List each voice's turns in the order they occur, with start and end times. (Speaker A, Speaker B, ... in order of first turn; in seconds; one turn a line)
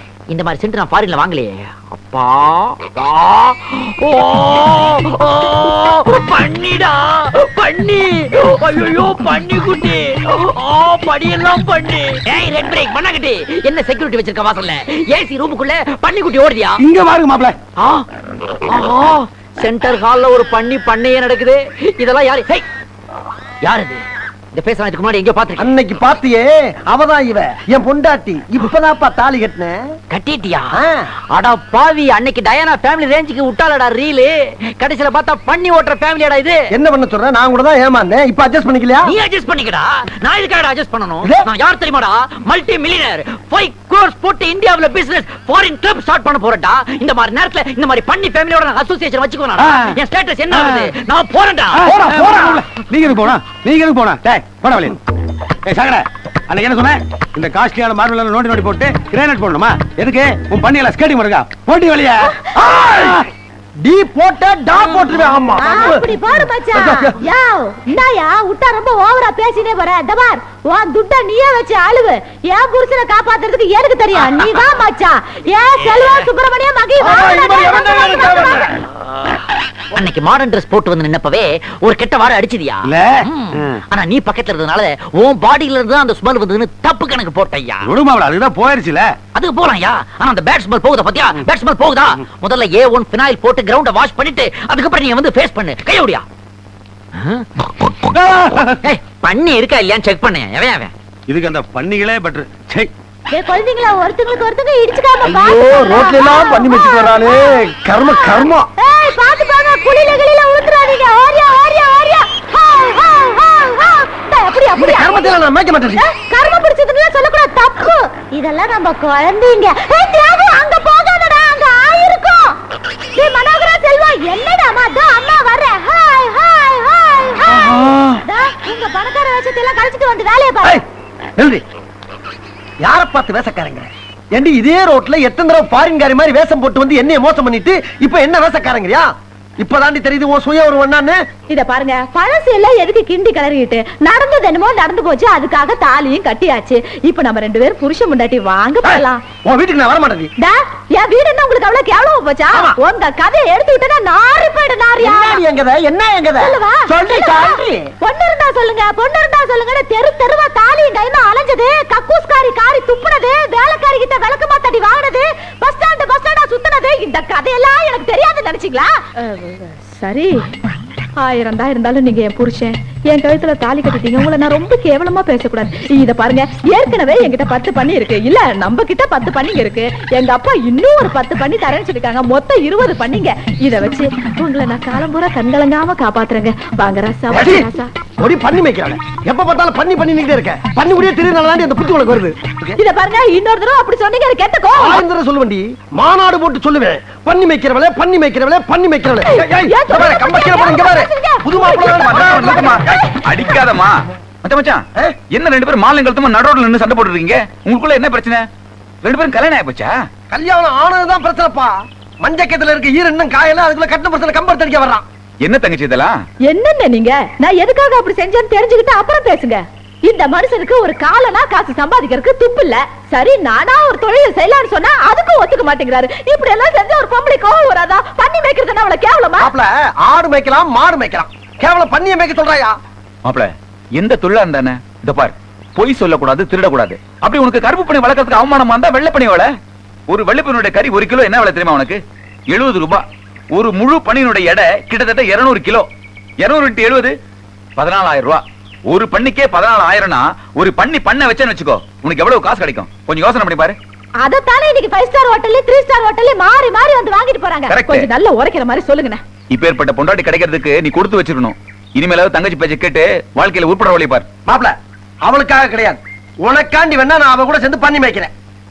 Speaker A: 0.3-16.8
Speaker B: 16.8-17.6
Speaker A: 17.8-18.1
Speaker A: 18.7-22.6
Speaker A: 23.6-24.0
Speaker A: 24.5-25.7
Speaker C: 25.6-29.8
Speaker A: 30.1-30.7
Speaker C: 30.7-31.0
Speaker A: 31.3-36.6
Speaker C: 36.7-39.1
Speaker A: 39.0-51.9
Speaker B: 49.6-50.0
Speaker B: 50.5-50.9
Speaker B: 51.7-55.0
Speaker C: 51.9-52.6
Speaker B: 55.6-62.4
Speaker C: 62.5-63.2
Speaker B: 62.9-63.2
Speaker C: 63.8-66.1
Speaker D: 65.6-78.6
Speaker C: 66.7-67.2
Speaker A: 75.8-76.3
Speaker C: 77.0-78.7
Speaker A: 79.9-87.9
Speaker B: 82.9-83.8
Speaker B: 87.8-89.1
Speaker A: 89.3-96.2
Speaker A: 97.2-97.5
Speaker B: 98.1-98.8
Speaker A: 98.8-100.9
Speaker B: 101.3-102.9
Speaker D: 103.3-107.3
Speaker C: 105.2-108.7
Speaker D: 108.8-115.3
Speaker C: 114.8-116.0
Speaker D: 116.0-122.5
Speaker D: 123.2-130.8
Speaker C: 127.5-128.1
Speaker C: 131.4-131.6
Speaker C: 132.8-141.2
Speaker E: 141.5-149.2
Speaker C: 148.8-150.3
Speaker E: 150.4-155.4
Speaker C: 155.0-157.9
Speaker E: 156.4-159.0
Speaker D: 159.0-162.7
Speaker E: 162.7-170.3
Speaker E: 171.2-187.9
Speaker C: 187.3-187.7
Speaker C: 188.2-192.8
Speaker E: 192.8-195.0
Speaker C: 194.8-202.9
Speaker E: 199.3-203.0
Speaker F: 202.0-208.4
Speaker F: 209.0-209.9
Speaker C: 210.3-215.1
Speaker F: 215.4-216.2
Speaker E: 216.5-229.5
Speaker C: 229.4-232.7
Speaker F: 233.2-239.5
Speaker F: 240.1-243.0
Speaker F: 243.5-245.8
Speaker F: 246.4-247.1
Speaker F: 247.8-253.8
Speaker E: 254.2-259.2
Speaker F: 257.7-258.1
Speaker F: 259.5-264.2
Speaker C: 264.5-264.7
Speaker C: 265.3-268.3